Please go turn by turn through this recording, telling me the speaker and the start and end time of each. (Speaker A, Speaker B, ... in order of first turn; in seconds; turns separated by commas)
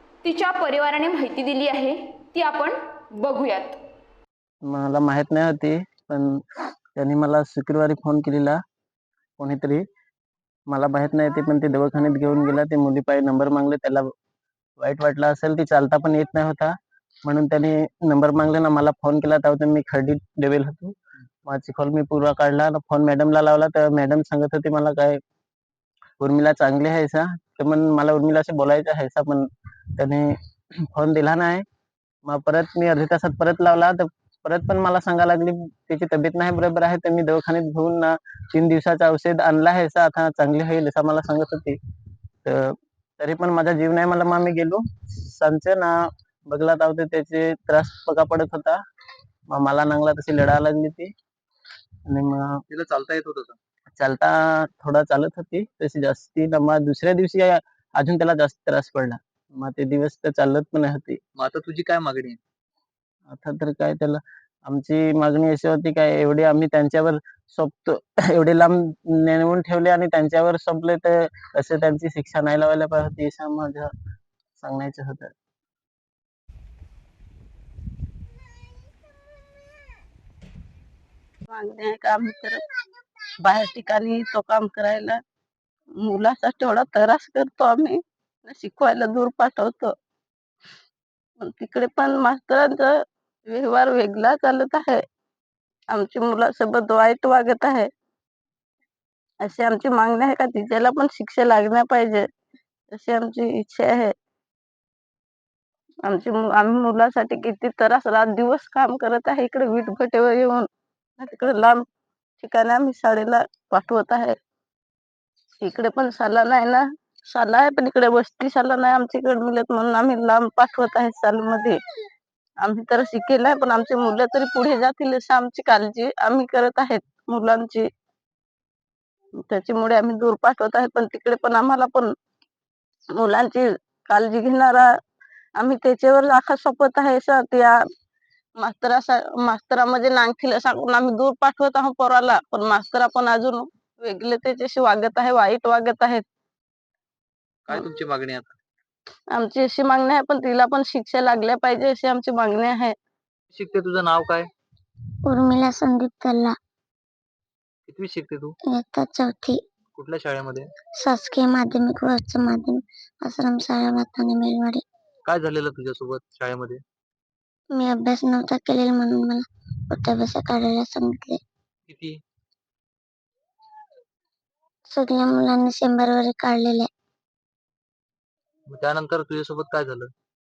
Speaker A: 0.2-3.8, Speaker B: 4.6-6.4, Speaker B: 7.0-8.6, Speaker B: 9.4-9.8, Speaker B: 10.7-14.1, Speaker B: 14.8-25.2, Speaker B: 26.2-30.4, Speaker B: 30.9-31.6, Speaker B: 32.3-41.8, Speaker B: 42.4-48.8, Speaker B: 49.5-51.1, Speaker B: 52.1-52.6, Speaker C: 52.7-53.6, Speaker B: 53.9-61.2, Speaker C: 61.4-62.4, Speaker B: 63.3-73.9, Speaker B: 74.6-75.3, Speaker D: 81.5-82.6, Speaker D: 83.4-85.2, Speaker D: 86.0-89.9, Speaker D: 91.4-92.9, Speaker D: 93.5-95.0, Speaker D: 95.9-97.9, Speaker D: 99.4-102.3, Speaker D: 102.9-104.1, Speaker D: 106.0-110.7, Speaker D: 111.2-111.8, Speaker D: 112.4-114.3, Speaker D: 115.6-121.8, Speaker D: 122.6-127.9, Speaker D: 129.4-132.1, Speaker D: 133.2-134.9, Speaker D: 135.6-137.8, Speaker D: 138.6-146.2, Speaker C: 147.7-148.6, Speaker D: 149.3-153.0, Speaker C: 153.5-154.5, Speaker E: 155.2-156.6, Speaker C: 157.9-158.6, Speaker E: 158.7-159.6, Speaker C: 159.9-160.7, Speaker E: 161.0-164.8, Speaker C: 165.3-166.8, Speaker E: 167.7-171.4, Speaker C: 171.9-172.1, Speaker E: 174.9-176.9, Speaker C: 178.7-180.1